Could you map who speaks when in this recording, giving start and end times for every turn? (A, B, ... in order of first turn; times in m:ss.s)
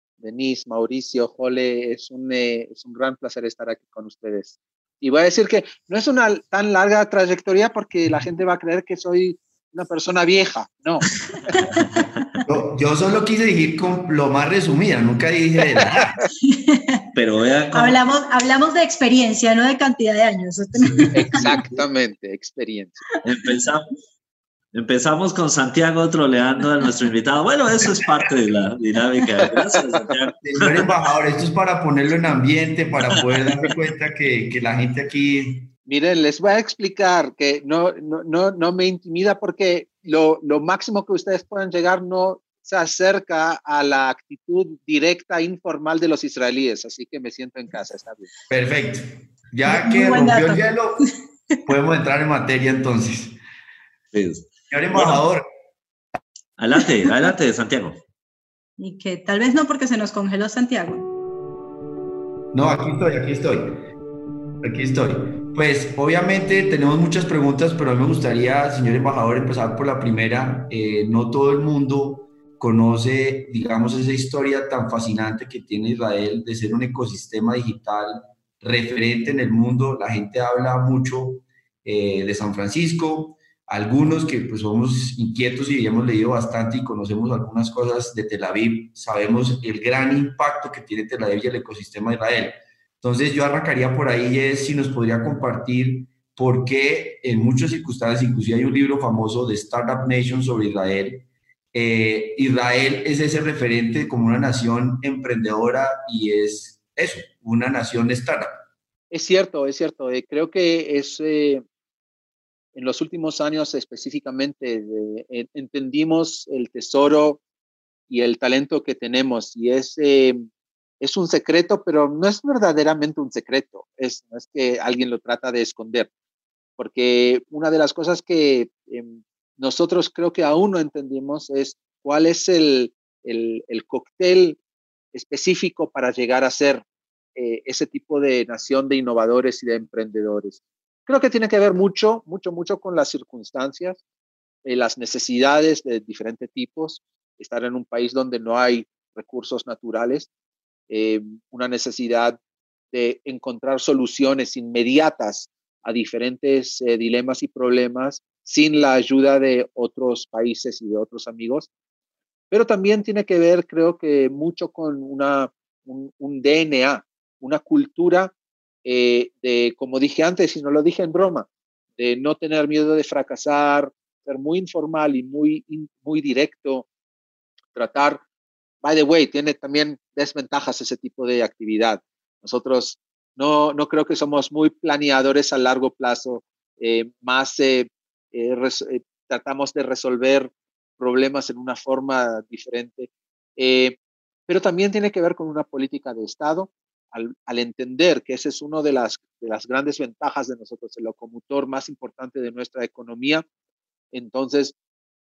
0:00.2-0:11.2 A
0:11.5-0:12.4 B
0:12.5-0:16.2 C
0:16.4-0:17.1 B
0:17.2-0:18.0 D
0:17.7-0:21.7 B
0:21.2-0:23.0 A
0:23.2-0:23.9 D
0:24.7-0:30.8 D
0:29.5-0:29.8 A
0:30.4-0:35.7 C
0:35.9-0:48.3 A
0:48.5-0:51.1 C
0:49.7-0:50.6 B
0:51.6-0:53.4 C
0:54.1-0:55.2 D
0:54.7-0:55.4 C
0:56.6-0:58.0 D
0:58.8-1:01.1 B
1:02.5-1:03.8 C
1:04.6-1:48.6 C
1:49.1-1:51.6 A
1:52.8-1:57.4 A
1:58.1-2:00.5 A
2:01.0-2:06.1 A
2:06.8-2:14.6 A
2:15.1-2:16.8 A
2:17.4-2:24.0 A
2:24.6-2:30.3 A
2:30.9-2:32.4 A
2:32.9-2:41.7 A
2:42.5-2:48.3 A
2:48.8-2:56.9 A
2:57.8-2:58.2 A
2:58.8-3:14.0 A
3:14.5-3:23.4 A
3:24.1-3:24.8 A